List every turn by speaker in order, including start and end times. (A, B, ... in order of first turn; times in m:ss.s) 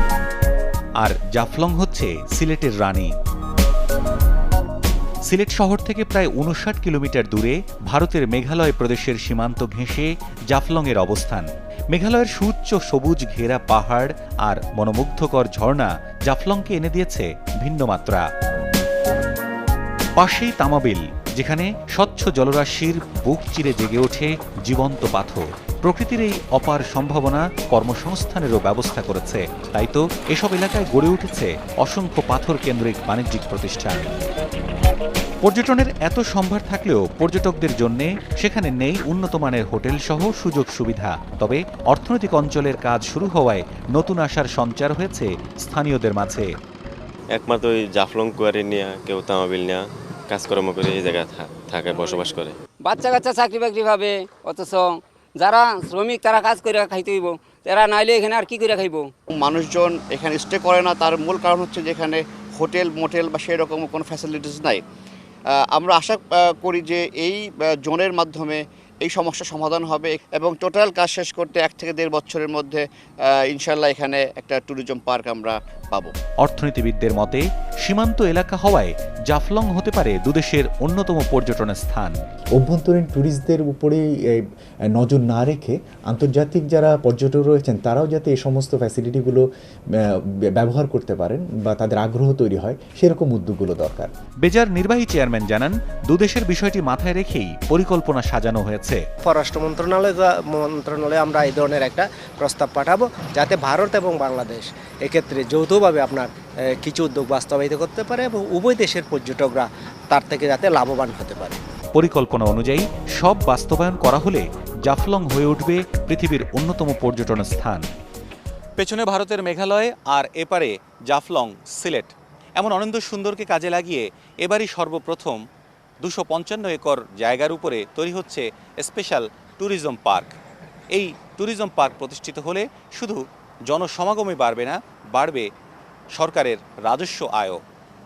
0:01.0-0:03.1 A
0:05.2-0:18.2 A
0:20.2-0:34.1 A
0:35.4-0:46.5 A
0:47.3-0:52.6 B
0:52.8-0:59.1 C
0:59.3-1:04.8 D
1:05.7-1:16.1 D
1:16.4-1:22.1 A
1:22.6-1:24.4 E
1:24.9-1:29.4 E
1:30.0-1:34.1 E
1:34.4-1:39.0 A
1:39.2-1:46.3 F
1:46.8-1:51.6 F
1:51.9-1:57.9 A
1:58.8-2:05.4 A
2:06.0-2:10.3 A
2:10.9-2:15.5 A
2:16.1-2:17.6 A